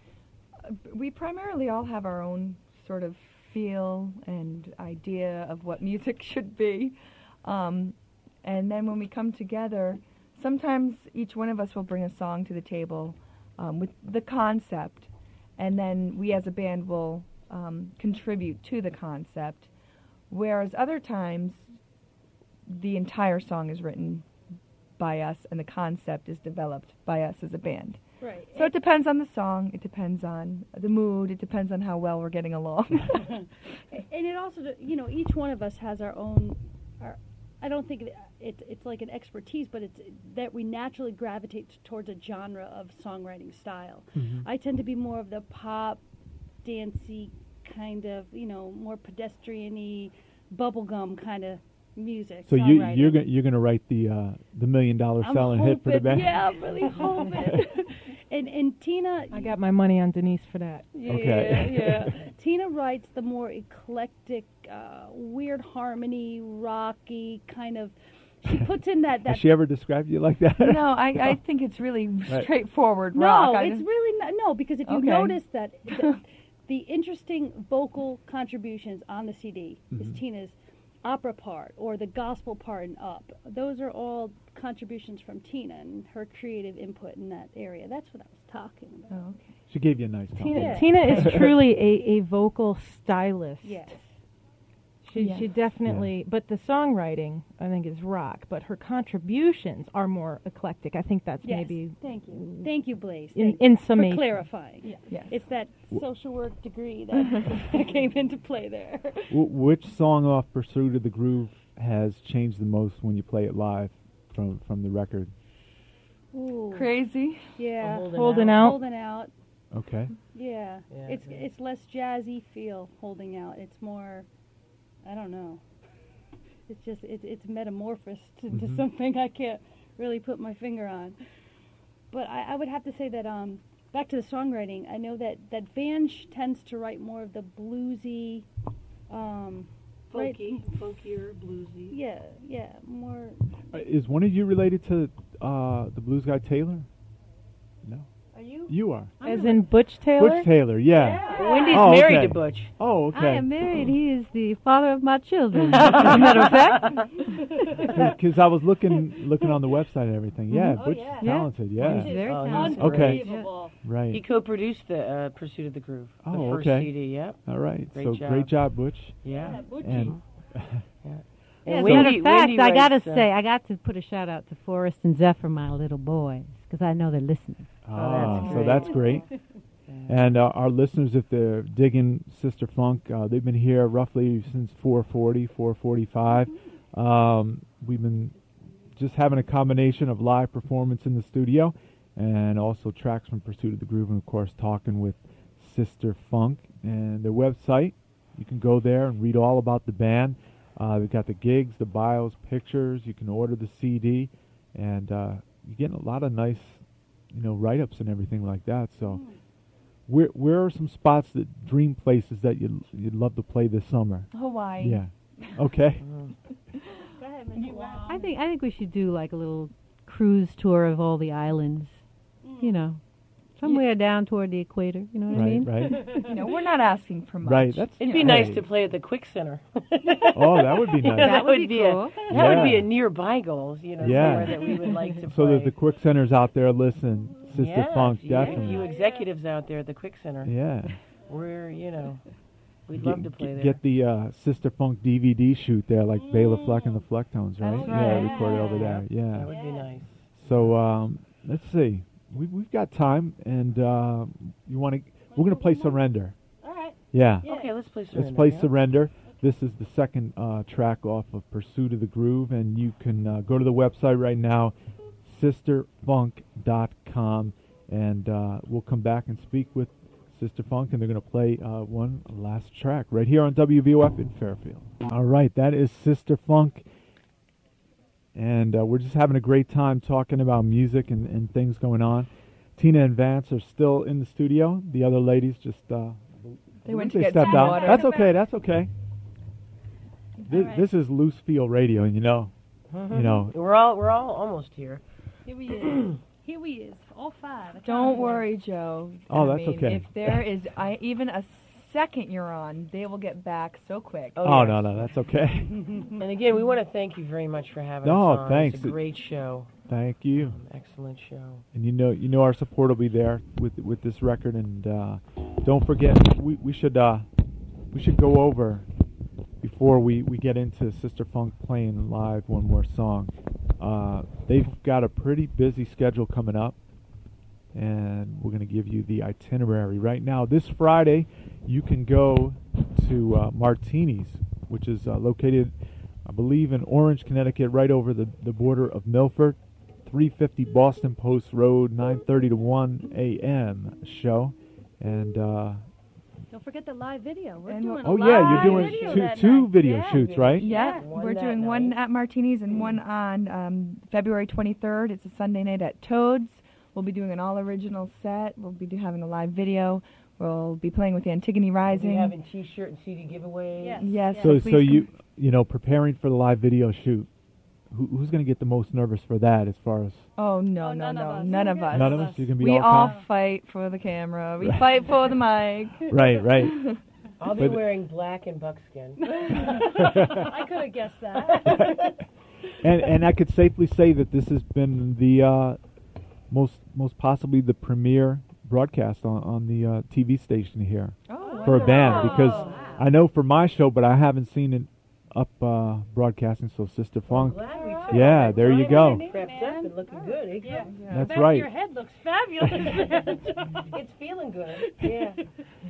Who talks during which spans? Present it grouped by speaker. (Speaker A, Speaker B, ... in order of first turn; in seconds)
Speaker A: 0.6-19.7, 20.3-21.7, 22.7-24.2, 25.0-28.0, 28.5-33.4, 70.6-73.8, 74.8-76.2, 89.1-89.5, 90.8-91.5, 95.1-95.5, 105.1-105.4, 116.7-117.6, 160.5-160.8, 214.3-215.5, 225.3-228.5, 286.8-288.1, 297.8-304.4, 347.6-349.1, 350.6-362.4, 364.0-365.1, 370.4-376.9, 391.3-392.7
Speaker B: 28.2-28.7, 33.9-46.0, 46.6-53.2, 55.2-59.6, 60.9-69.6, 73.1-89.2, 90.5-90.9, 93.6-94.1, 101.4-109.4, 116.3-116.9, 117.6-119.3, 120.3-124.3, 125.0-125.6, 126.7-131.2, 132.1-138.5, 139.1-140.9, 141.9-143.6, 148.3-149.6, 150.9-152.0, 160.7-163.8, 169.3-170.2, 178.3-179.4, 209.0-209.4, 217.1-218.3, 222.4-222.9, 225.7-226.4, 238.4-239.3, 246.1-247.1, 247.7-250.0, 255.3-257.8, 287.4-288.4, 290.4-290.9, 295.4-298.6, 346.5-351.1, 363.8-364.6, 370.8-373.2, 379.2-382.2, 391.4-393.0, 397.6-404.0, 404.7-405.5
Speaker C: 44.1-44.5, 52.5-56.4, 61.0-62.1, 69.2-71.3, 89.7-91.5, 95.8-96.1, 109.3-115.3, 119.7-120.1, 128.5-128.8, 143.7-146.9, 147.8-148.1, 148.7-149.1, 150.1-153.5, 157.9-163.2, 163.8-164.2, 166.2-170.8, 171.8-172.2, 177.8-179.4, 180.1-188.4, 188.9-209.2, 210.1-216.1, 225.3-226.1, 227.4-228.7, 230.3-231.4, 232.3-232.9, 234.0-234.7, 235.2-238.9, 240.4-241.0, 242.9-249.5, 250.3-256.4, 257.1-257.5, 258.1-276.8, 278.3-288.9, 290.4-292.5, 293.1-293.5, 299.3-300.4, 304.4-306.1, 308.0-309.0, 309.9-310.6, 311.7-317.3, 317.9-318.9, 319.6-326.8, 327.7-335.7, 336.2-345.8, 348.0-350.7, 364.4-367.3, 367.9-370.3, 371.9-373.2, 376.1-376.9, 377.5-377.9, 380.0-380.5, 382.8-385.8, 386.5-399.3, 401.1-401.7
Speaker D: 52.7-53.2, 56.8-57.6, 59.3-60.9, 90.4-94.0, 95.0-102.7, 103.3-105.1, 118.1-118.8, 149.2-150.5
Speaker E: 117.8-118.7, 120.9-121.5, 140.1-141.1, 151.2-152.7, 155.7-157.1, 162.1-163.4, 164.1-168.7, 169.2-170.2, 171.0-173.3, 177.9-179.2, 179.9-180.4, 216.0-216.3, 228.0-235.7, 237.5-240.5, 241.3-242.3, 242.8-243.8, 247.6-250.8, 257.4-258.7, 292.9-295.0, 295.7-296.2, 304.3-305.1, 306.2-309.7, 310.4-311.6, 348.9-349.2, 350.0-352.0, 361.9-364.1, 377.4-380.0, 391.6-393.0, 397.3-401.0, 402.8-403.1, 403.9-405.4
Speaker F: 153.1-157.2, 161.2-163.5, 171.7-178.2, 218.0-222.0, 222.6-226.3, 231.2-232.2